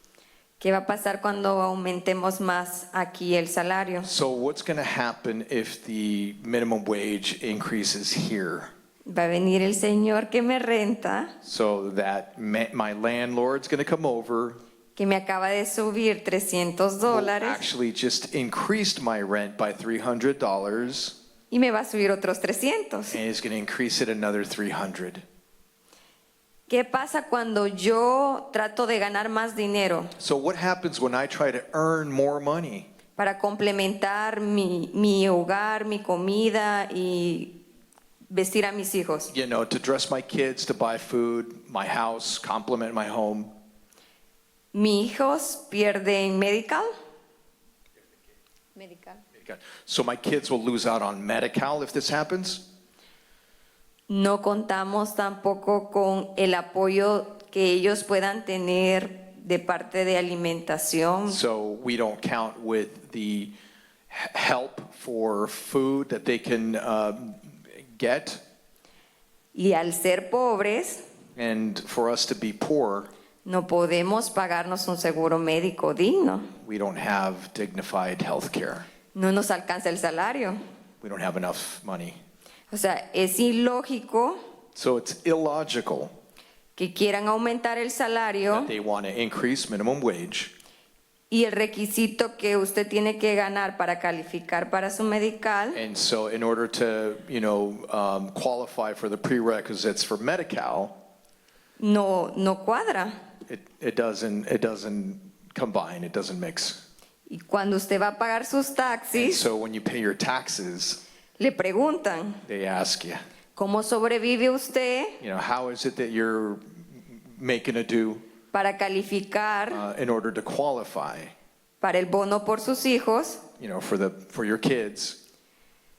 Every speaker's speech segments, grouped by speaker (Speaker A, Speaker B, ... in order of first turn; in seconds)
Speaker A: 0.6-4.1, 9.1-11.3, 14.9-17.6, 21.5-23.2, 26.7-30.1, 33.2-37.5, 38.3-39.3, 44.7-46.9, 48.8-49.2, 54.1-61.4, 69.5-71.0, 73.5-76.5, 79.1-80.6, 82.7-84.4, 86.8-88.7, 91.3-95.8, 101.8-103.1, 107.3-109.4, 111.4-112.4, 113.5-115.2, 118.5-119.8, 121.8-123.4
Speaker B: 4.0-8.7, 11.4-14.6, 17.1-21.1, 23.1-25.2, 30.2-32.9, 39.3-43.5, 49.4-52.6, 61.3-63.5, 64.1-68.4, 71.3-73.1, 76.6-78.8, 81.0-82.2, 84.7-86.1, 88.5-90.5, 95.7-100.9, 103.5-106.8, 109.1-111.0, 112.5-113.2, 115.2-118.2, 119.7-121.3, 123.6-125.2